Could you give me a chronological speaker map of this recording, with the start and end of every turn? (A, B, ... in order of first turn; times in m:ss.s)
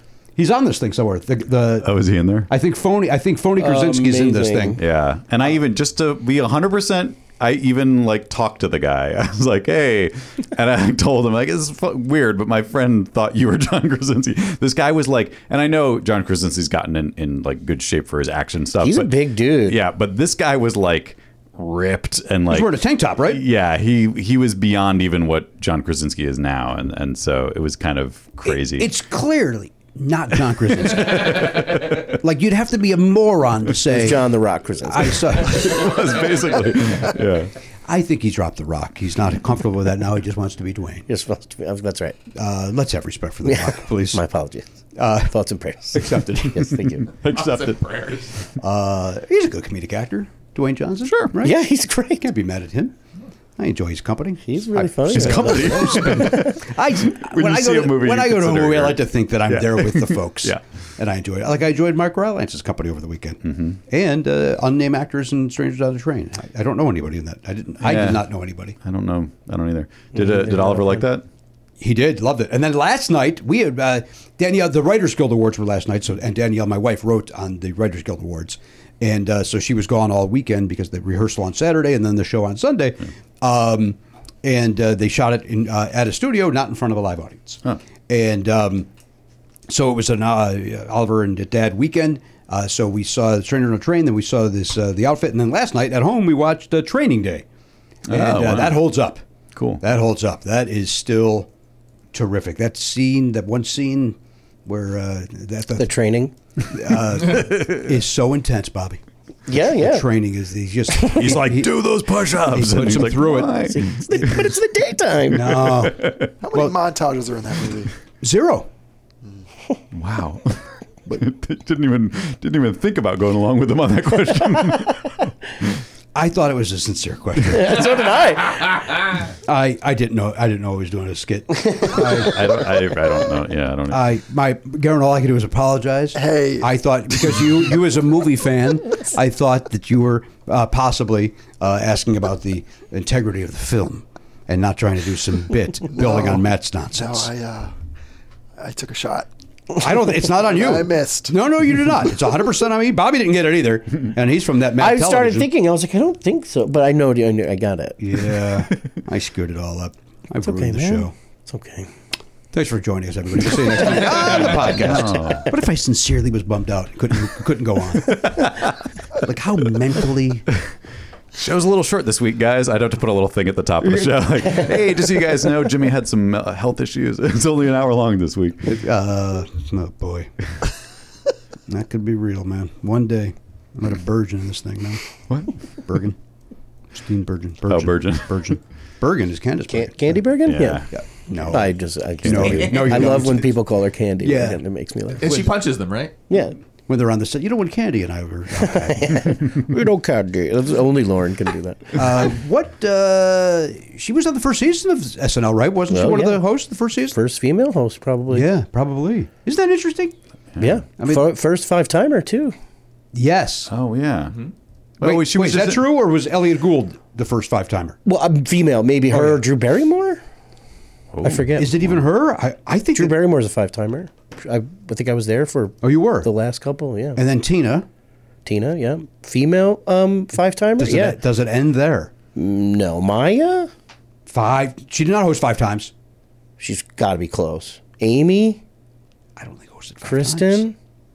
0:00.4-0:01.9 A
0:01.8-0:02.5 B
0:02.5-0:04.8 A
0:03.6-0:04.8 C
0:04.8-0:28.9 B
0:18.8-0:19.8 C
0:22.5-0:23.4 A
0:28.4-0:34.3 A
0:30.6-0:32.1 B
0:33.8-0:35.4 C
0:34.8-0:35.8 A
0:35.2-0:37.5 B
0:37.9-0:41.0 A
0:41.1-0:42.2 C
0:42.3-0:44.2 A
0:43.4-0:44.6 C
0:44.9-0:45.3 A
0:45.2-0:47.1 C
0:45.9-0:46.8 A
0:47.2-0:47.8 B
0:47.2-0:48.4 D
0:48.6-0:51.6 A
0:51.0-0:51.3 B
0:51.4-0:52.3 C
0:52.2-0:52.9 A
0:53.6-1:08.8 A
0:54.4-0:56.5 C
0:55.1-1:00.6 B
1:03.4-1:03.8 B
1:07.8-1:08.3 B
1:08.8-1:11.2 B
1:10.1-1:11.0 C
1:11.8-1:28.9 A
1:29.7-1:37.4 A
1:38.1-1:38.8 B
1:38.1-1:39.2 A
1:39.5-1:39.8 B
1:39.8-1:41.5 A
1:42.1-1:45.9 A
1:45.8-1:46.3 C
1:46.6-1:49.0 A
1:49.5-1:50.1 C
1:49.6-1:54.4 A
1:51.1-1:54.5 B
1:53.4-1:55.9 C
1:55.3-1:56.7 A
1:55.3-1:56.3 B
1:56.4-1:57.9 E
1:58.2-1:58.7 A
1:59.9-2:05.3 B
2:06.1-2:07.9 A
2:07.4-2:08.7 C
2:09.4-2:12.4 A
2:11.8-2:12.6 C
2:12.0-2:14.1 B
2:13.9-2:27.3 A
2:16.1-2:16.7 E
2:25.9-2:27.7 E
2:28.6-2:29.3 E
2:29.8-2:35.5 A
2:30.4-2:31.3 E
2:34.8-2:38.0 C
2:38.0-2:41.1 A
2:40.4-2:41.9 C
2:42.5-2:48.6 A
2:44.0-2:45.5 B
2:49.1-2:50.5 A
2:51.3-2:58.6 B
2:58.6-3:00.3 A
3:01.7-3:05.0 A
3:05.3-3:05.5 B
3:05.8-3:06.2 A
3:06.9-3:13.5 A
3:07.7-3:08.6 B
3:09.7-3:10.8 C
3:10.4-3:11.5 B
3:11.5-3:15.3 C
3:12.2-3:12.8 B
3:14.2-3:15.6 A
3:15.2-3:16.1 D
3:16.3-3:16.6 C
3:16.9-3:19.3 A
3:18.6-3:22.3 C
3:21.9-3:27.2 A
3:25.9-3:26.5 C
3:27.1-3:28.5 C
3:28.3-3:30.1 A
3:30.5-3:30.8 B
3:30.6-3:32.5 C
3:31.0-3:31.3 A
3:33.1-3:33.7 A
3:33.7-3:34.4 B
3:35.0-3:35.8 B
3:35.0-3:38.0 A
3:38.0-3:40.2 C
3:39.1-3:39.4 A
3:41.1-3:42.0 B
3:41.2-3:41.7 C
3:41.5-3:43.2 A
3:42.9-3:47.2 C
3:45.8-3:46.3 A
3:47.2-3:47.8 A
3:48.4-3:51.2 C
3:50.8-3:52.1 A
3:52.3-3:53.7 C
3:54.3-3:55.9 A
3:56.6-3:58.6 C
3:59.4-4:00.6 A
4:00.0-4:00.7 C